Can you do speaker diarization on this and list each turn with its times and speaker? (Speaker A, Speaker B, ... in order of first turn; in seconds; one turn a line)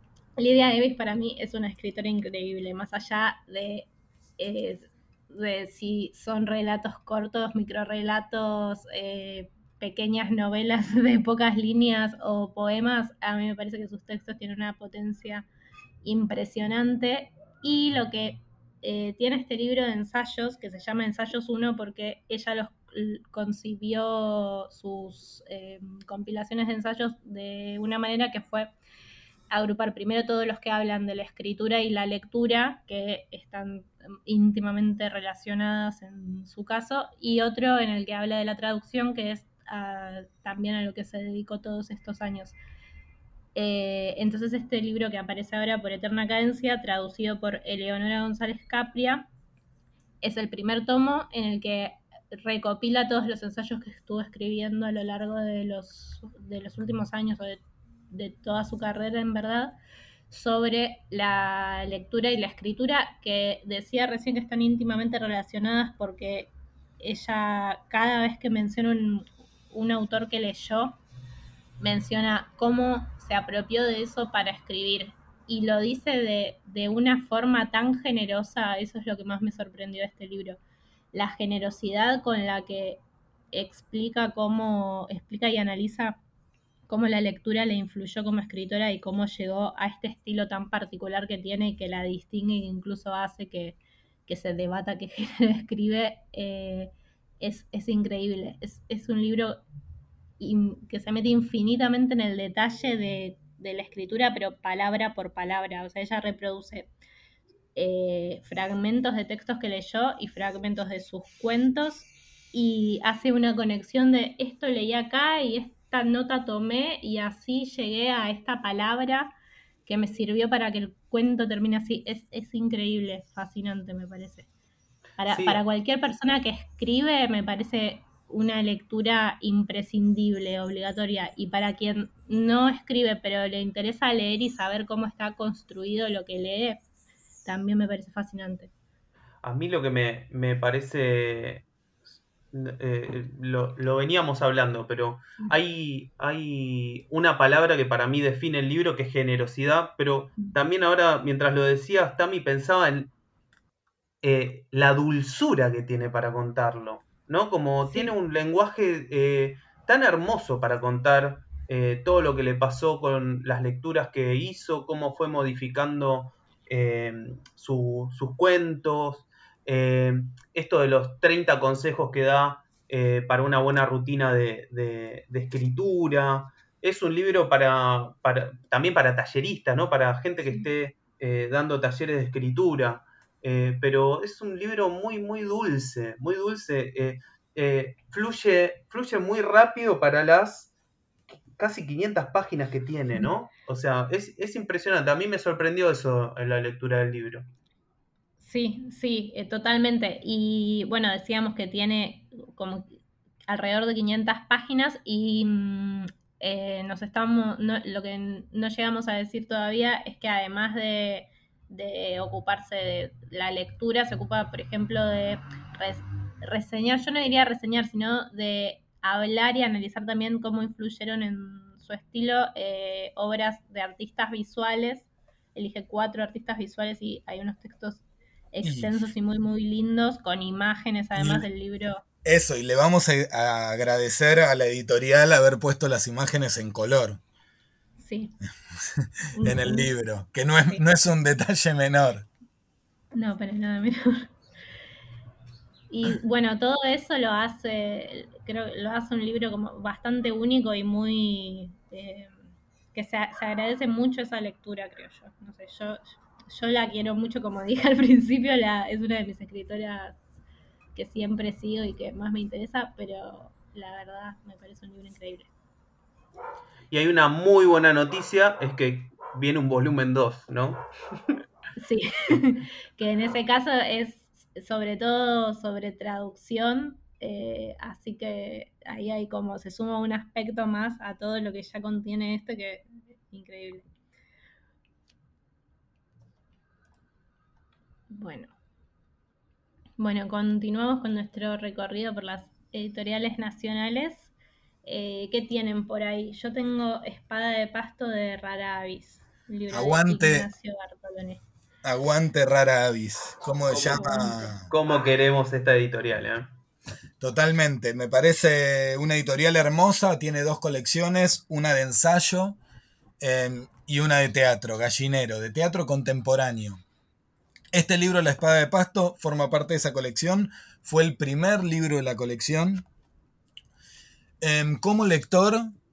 Speaker A: 0.4-15.5
Speaker A: 16.0-28.7
Speaker A: 29.5-42.6
Speaker A: 43.5-49.3
Speaker A: 50.2-59.7
Speaker A: 60.3-71.0
Speaker A: 71.8-80.6
Speaker A: 81.1-83.0
Speaker A: 83.5-86.2
Speaker A: 86.9-99.6
Speaker A: 100.4-106.9
Speaker A: 107.7-119.3
Speaker A: 119.8-124.5
Speaker A: 125.2-136.8
Speaker B: 125.3-125.6
Speaker A: 137.4-138.7
Speaker B: 139.4-141.7
Speaker B: 142.5-153.1
Speaker B: 154.2-190.7
Speaker A: 157.8-158.1
Speaker B: 191.6-197.5
Speaker A: 198.4-202.9
Speaker A: 203.5-232.0
Speaker C: 228.6-228.9
Speaker C: 231.2-231.5
Speaker C: 232.2-237.2
Speaker A: 238.0-238.3
Speaker A: 239.3-239.9
Speaker C: 239.4-242.3
Speaker A: 243.1-244.3
Speaker A: 245.9-252.4
Speaker A: 252.9-260.2
Speaker A: 260.9-265.5
Speaker B: 266.9-270.8
Speaker A: 271.8-283.9
Speaker A: 288.1-288.5
Speaker A: 290.0-294.3
Speaker A: 294.8-301.4
Speaker C: 299.7-300.5
Speaker C: 301.8-304.7
Speaker B: 303.7-306.5
Speaker A: 303.9-304.5
Speaker C: 307.2-312.6
Speaker C: 313.2-316.8
Speaker C: 317.7-322.8
Speaker C: 324.4-325.7